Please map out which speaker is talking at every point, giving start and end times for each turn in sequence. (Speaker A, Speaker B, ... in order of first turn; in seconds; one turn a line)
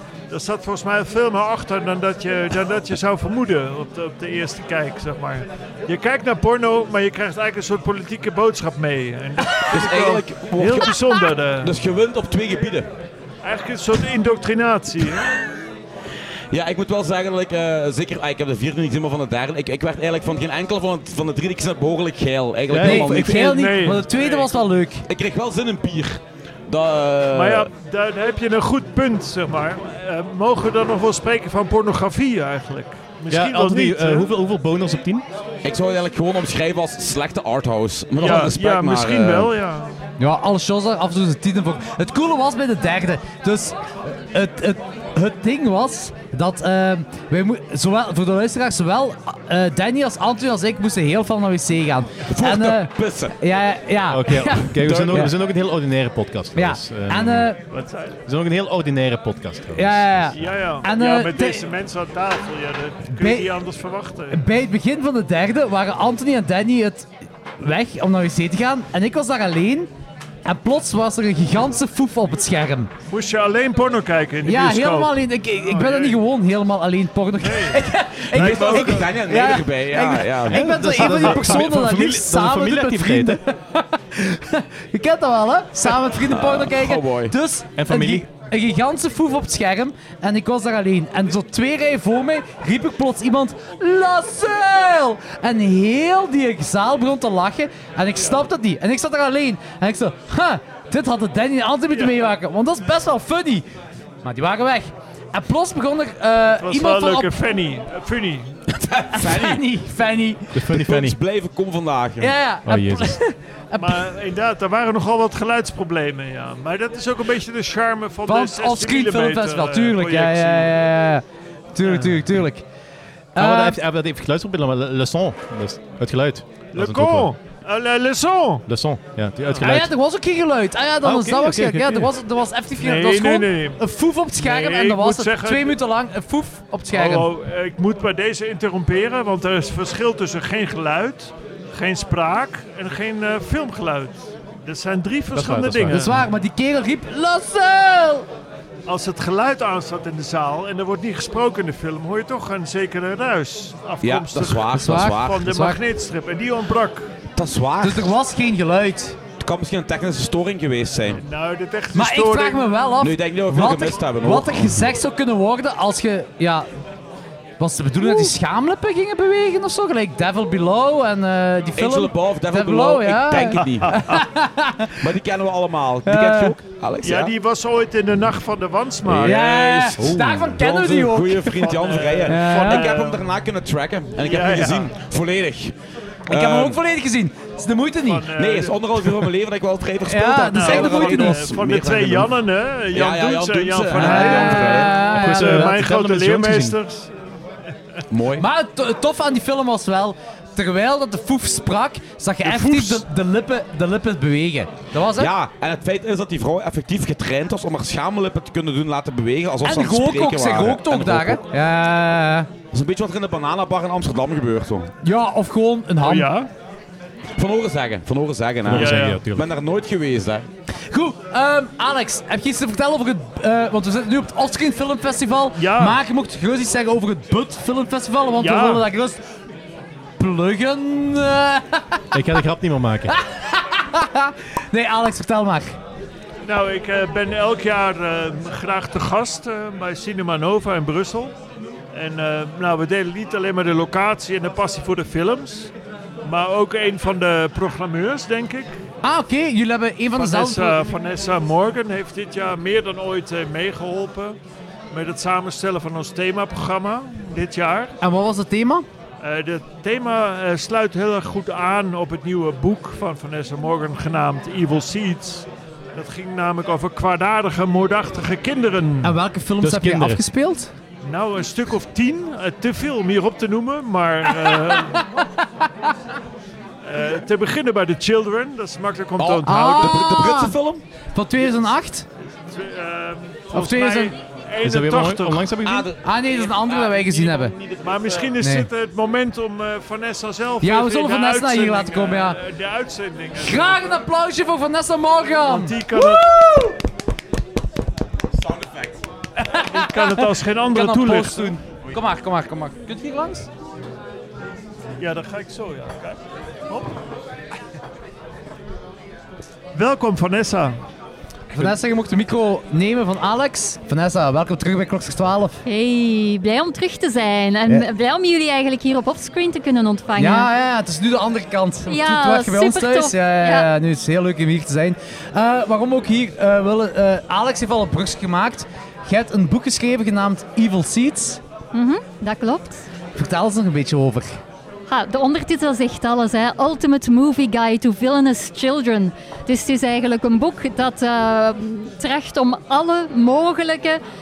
Speaker A: 0.3-11.8
Speaker B: 9.6-12.9
Speaker A: 13.4-15.4
Speaker B: 16.5-23.6
Speaker C: 22.7-23.0
Speaker D: 22.8-25.0
Speaker A: 22.8-24.6
Speaker B: 25.1-27.7
Speaker A: 27.3-34.3
Speaker C: 33.3-35.2
Speaker B: 35.6-39.5
Speaker A: 38.2-39.9
Speaker D: 40.2-55.3
Speaker B: 52.3-53.3
Speaker C: 54.1-57.5
Speaker B: 54.8-55.3
Speaker D: 56.5-57.6
Speaker A: 57.7-58.1
Speaker C: 58.3-60.3
Speaker D: 59.8-61.6
Speaker A: 60.3-64.4
Speaker D: 63.1-63.5
Speaker D: 64.3-67.1
Speaker D: 67.6-69.9
Speaker D: 70.4-72.9
Speaker A: 73.1-76.2
Speaker D: 74.4-103.7
Speaker A: 77.4-79.1
Speaker B: 78.3-81.5
Speaker C: 80.5-83.4
Speaker B: 85.9-87.3
Speaker C: 87.8-88.2
Speaker D: 104.2-107.3
Speaker A: 106.6-108.5
Speaker B: 108.7-109.6
Speaker D: 109.1-110.5
Speaker C: 110.5-111.2
Speaker B: 110.7-112.3
Speaker D: 112.2-114.1
Speaker C: 112.7-113.2
Speaker A: 113.8-120.7
Speaker D: 118.3-121.2
Speaker D: 121.8-122.6
Speaker A: 121.8-122.3
Speaker D: 123.3-123.8
Speaker C: 123.4-127.3
Speaker A: 126.7-128.6
Speaker C: 128.7-129.9
Speaker D: 129.6-137.3
Speaker C: 131.0-132.1
Speaker A: 132.8-133.8
Speaker A: 134.3-135.8
Speaker A: 136.9-146.2
Speaker C: 145.3-146.1
Speaker D: 145.9-148.3
Speaker A: 148.8-157.1
Speaker B: 154.0-155.5
Speaker D: 154.7-155.8
Speaker B: 157.3-158.1
Speaker D: 157.8-159.2
Speaker B: 159.4-161.2
Speaker A: 161.1-162.7
Speaker D: 161.9-166.7
Speaker B: 163.0-164.9
Speaker D: 167.6-175.0
Speaker B: 171.8-174.0
Speaker A: 173.8-174.2
Speaker B: 175.0-177.3
Speaker D: 176.0-176.6
Speaker A: 177.0-179.4
Speaker B: 179.0-185.8
Speaker D: 179.2-181.7
Speaker C: 180.0-180.5
Speaker A: 181.6-183.2
Speaker D: 182.2-183.0
Speaker A: 184.2-184.9
Speaker B: 186.3-186.8
Speaker D: 186.3-188.3
Speaker A: 188.0-188.8
Speaker B: 188.3-192.3
Speaker D: 190.1-191.4
Speaker A: 190.5-197.1
Speaker B: 192.9-195.0
Speaker D: 193.9-195.8
Speaker C: 195.1-196.8
Speaker B: 198.1-198.4
Speaker D: 198.4-205.3
Speaker B: 202.5-203.0
Speaker B: 205.1-211.4
Speaker D: 209.6-212.5
Speaker B: 212.7-214.9
Speaker D: 215.0-216.4
Speaker A: 216.0-216.5
Speaker B: 217.4-220.5
Speaker C: 218.6-219.5
Speaker A: 218.7-219.2
Speaker D: 220.9-229.2
Speaker A: 225.6-226.0
Speaker A: 228.4-228.8
Speaker D: 230.2-232.0
Speaker C: 232.1-233.1
Speaker D: 233.1-235.8
Speaker A: 236.4-241.3
Speaker A: 241.9-245.7
Speaker A: 246.2-248.8
Speaker D: 249.0-250.8
Speaker A: 250.1-254.4
Speaker A: 254.9-257.9
Speaker D: 258.0-258.9
Speaker A: 259.2-269.2
Speaker D: 269.0-270.7
Speaker C: 269.6-270.2
Speaker A: 271.0-275.2
Speaker A: 276.8-280.0
Speaker B: 279.2-280.8
Speaker D: 279.4-280.6
Speaker D: 281.1-282.1
Speaker A: 282.3-285.5
Speaker D: 283.5-284.1
Speaker C: 284.6-285.9
Speaker B: 285.6-288.4
Speaker D: 286.0-287.5
Speaker A: 287.8-293.9
Speaker D: 288.4-288.7
Speaker D: 290.6-292.4
Speaker D: 293.3-296.8
Speaker A: 295.4-296.5
Speaker B: 298.4-298.9
Speaker D: 299.4-303.5
Speaker A: 299.5-301.6
Speaker A: 305.0-307.0
Speaker A: 309.8-310.8
Speaker D: 311.5-315.6
Speaker E: 315.6-320.5
Speaker D: 320.2-331.4
Speaker E: 321.9-323.7
Speaker E: 331.7-332.8
Speaker D: 333.1-334.4
Speaker E: 334.9-344.0